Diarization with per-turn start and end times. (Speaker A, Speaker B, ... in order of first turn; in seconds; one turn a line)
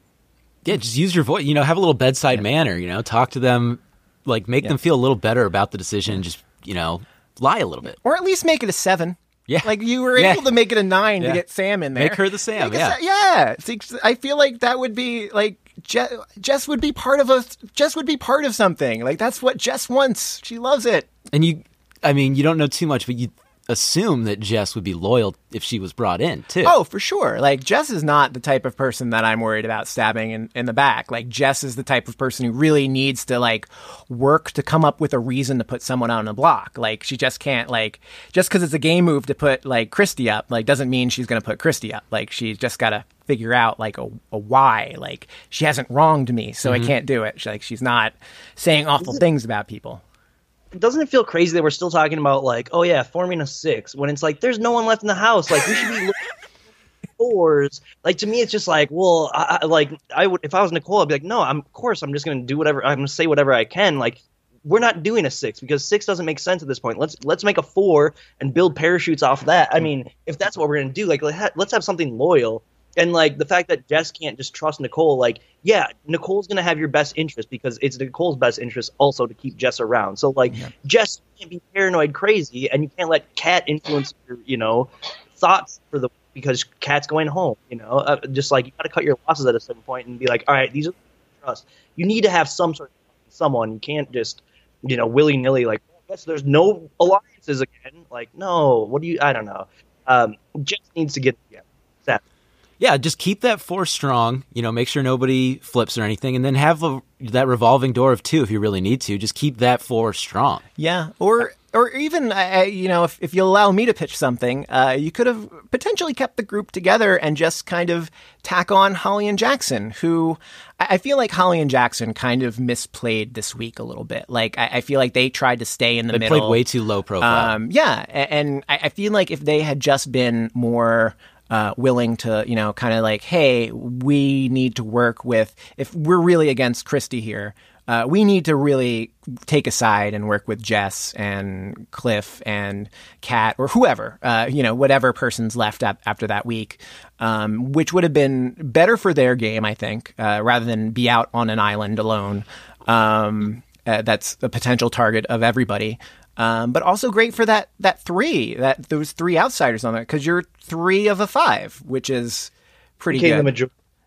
Speaker A: 0.6-8.0
Speaker B: 8.0-21.1
Speaker A: 9.5-10.5
Speaker A: 11.9-13.0
Speaker A: 21.3-26.7
Speaker B: 26.6-50.0
Speaker A: 46.6-46.9
Speaker C: 50.8-56.2
Speaker C: 57.2-102.2
Speaker A: 102.8-110.6
Speaker B: 110.8-126.6
Speaker A: 126.1-127.5
Speaker B: 127.2-163.5
Speaker C: 163.1-163.7